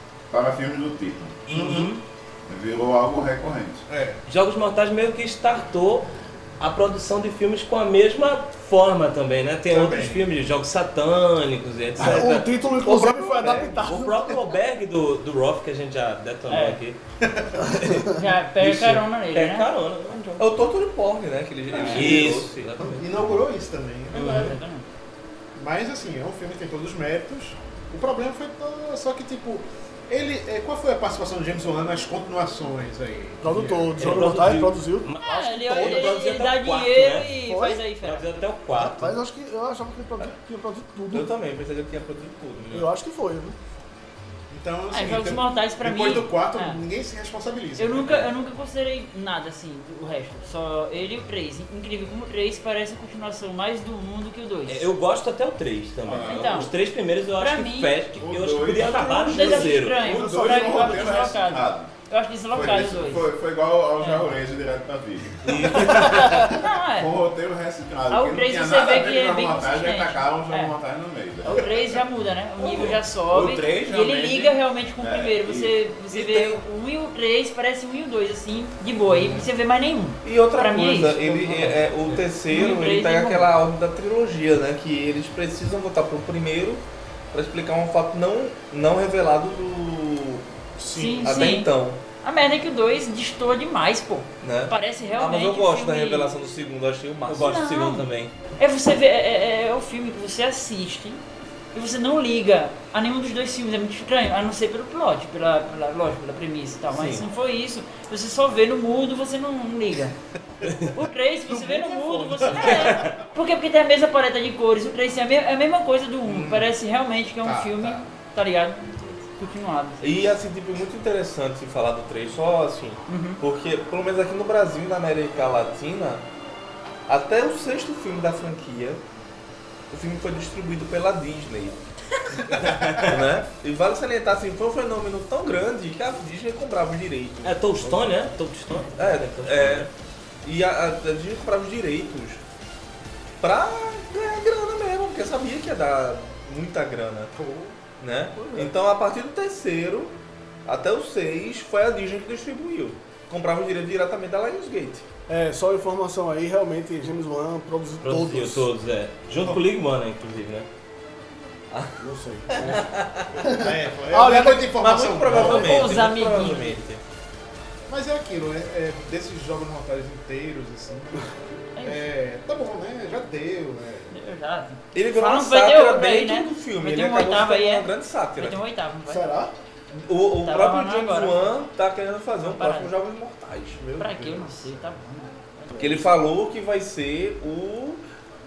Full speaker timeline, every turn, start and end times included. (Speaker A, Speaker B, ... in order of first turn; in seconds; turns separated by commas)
Speaker A: 0.3-1.4, Speaker B: 1.5-2.0, Speaker C: 1.5-1.9, Speaker A: 2.5-3.8, Speaker C: 3.9-4.2, Speaker B: 4.3-6.1, Speaker B: 6.6-17.0, Speaker C: 9.7-10.3, Speaker D: 12.0-14.5, Speaker E: 12.9-13.8, Speaker F: 16.5-16.8, Speaker C: 17.3-17.7, Speaker B: 17.8-20.5, Speaker F: 18.1-19.7, Speaker E: 20.4-22.7, Speaker B: 21.7-23.1, Speaker C: 21.9-22.2, Speaker C: 22.8-24.6, Speaker B: 24.1-24.6, Speaker F: 24.2-24.9, Speaker C: 25.6-34.4, Speaker D: 33.4-36.2, Speaker B: 34.0-37.3, Speaker F: 35.2-38.4, Speaker D: 37.5-37.8, Speaker B: 38.0-39.2, Speaker D: 38.7-41.3, Speaker E: 41.1-42.6, Speaker B: 42.6-42.9, Speaker D: 42.7-43.6, Speaker C: 44.5-48.2, Speaker F: 44.9-46.8, Speaker F: 47.8-54.9, Speaker B: 48.0-48.3, Speaker B: 54.7-60.2, Speaker A: 56.0-56.7, Speaker F: 56.2-56.7, Speaker F: 57.4-58.0, Speaker A: 58.1-61.9, Speaker F: 59.0-63.3, Speaker A: 62.5-72.0, Speaker F: 64.0-64.3, Speaker B: 65.4-66.5, Speaker F: 65.6-67.1, Speaker F: 68.1-70.8, Speaker F: 71.4-83.5, Speaker A: 72.6-76.2, Speaker C: 79.1-79.5, Speaker E: 80.2-90.5, Speaker C: 90.8-91.5, Speaker F: 90.9-91.7, Speaker E: 91.2-92.0, Speaker F: 92.2-96.4, Speaker E: 94.4-97.6, Speaker B: 97.3-98.3, Speaker F: 97.4-98.1, Speaker F: 98.6-101.2, Speaker F: 101.7-110.2, Speaker B: 106.9-107.2, Speaker B: 110.7-110.9, Speaker F: 110.9-120.1, Speaker C: 111.5-113.0, Speaker B: 112.6-113.2, Speaker C: 116.3-116.7, Speaker C: 117.4-118.1, Speaker E: 120.0-126.2, Speaker F: 123.1-123.4, Speaker E: 127.1-129.0, Speaker E: 129.9-131.8, Speaker E: 132.4-137.9, Speaker B: 132.5-133.3, Speaker B: 137.4-139.9, Speaker E: 139.0-139.9, Speaker E: 140.4-142.4, Speaker E: 143.4-147.3, Speaker C: 147.3-147.8, Speaker E: 148.0-155.1, Speaker D: 148.4-148.7, Speaker D: 155.3-158.7, Speaker B: 158.0-160.7, Speaker E: 161.7-162.0, Speaker D: 162.0-164.7, Speaker E: 162.5-163.4, Speaker C: 163.5-166.0, Speaker E: 164.7-167.0, Speaker F: 165.4-166.8, Speaker C: 167.9-174.1, Speaker F: 171.8-172.1, Speaker F: 174.1-179.3, Speaker E: 174.9-178.6, Speaker D: 179.1-179.5, Speaker E: 179.9-183.8, Speaker F: 180.4-181.5, Speaker F: 182.4-182.9, Speaker C: 183.8-184.7, Speaker F: 184.0-186.1, Speaker E: 185.8-188.0